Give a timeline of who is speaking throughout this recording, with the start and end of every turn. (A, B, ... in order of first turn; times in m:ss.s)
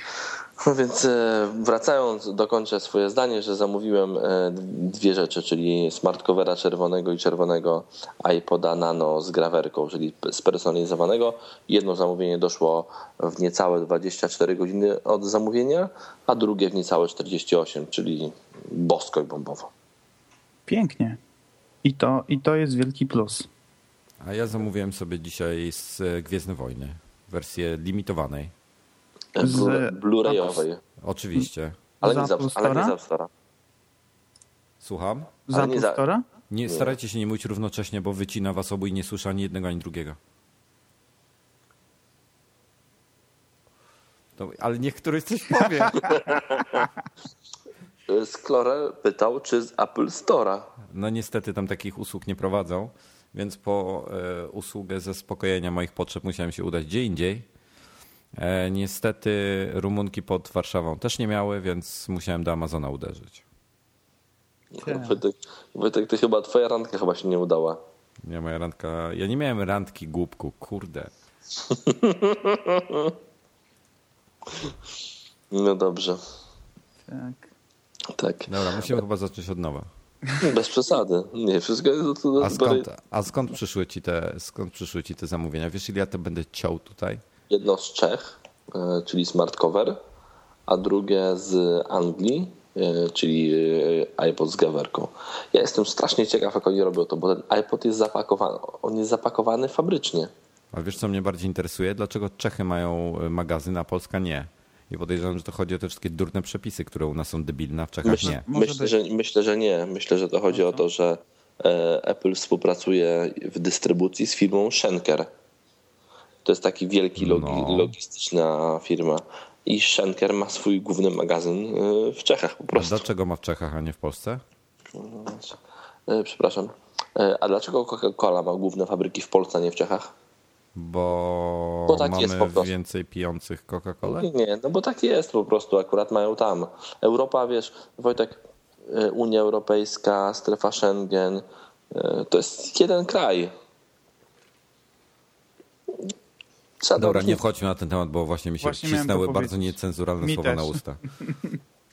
0:00.6-0:19.7 A
0:20.7-0:21.2 B
0:21.8-0:23.5 B
0:24.2-0:28.5 C
0:29.4-0:30.8 A
0:29.4-0:30.6 B
0:31.0-0:31.8 C
0:32.0-0:33.3 A
0:32.0-0:33.0 B
0:34.8-0:35.4 C
0:35.5-0:36.2 B
0:35.5-0:36.0 A
0:36.5-0:40.2 C
0:36.7-0:37.0 A
0:44.4-0:46.3 C
0:46.2-0:46.8 A
0:48.1-0:50.7 A
0:50.9-0:57.5 C
0:58.4-1:03.4 C
1:04.8-1:07.8 A
1:04.8-1:05.2 B
1:08.2-1:11.1 C
1:11.6-1:13.1 A
1:15.5-1:16.2 A
1:17.1-1:17.5 B
1:18.1-1:19.0 A
1:18.5-1:19.9 C
1:20.4-1:22.9 A
1:22.4-1:27.2 C
1:27.5-1:30.0 A
1:30.7-1:40.3 A
1:40.7-1:48.4 C
1:48.0-1:55.3 A
1:48.1-1:48.9 B
1:50.5-1:50.8 B
1:56.4-2:03.0 A
1:57.2-1:57.9 C
2:02.8-2:04.4 C
2:04.9-2:10.1 A
2:10.8-2:14.3 C
2:11.9-2:12.7 A
2:14.0-2:23.5 A
2:26.8-2:27.4 A
2:27.0-2:31.0 C
2:28.6-2:31.6 B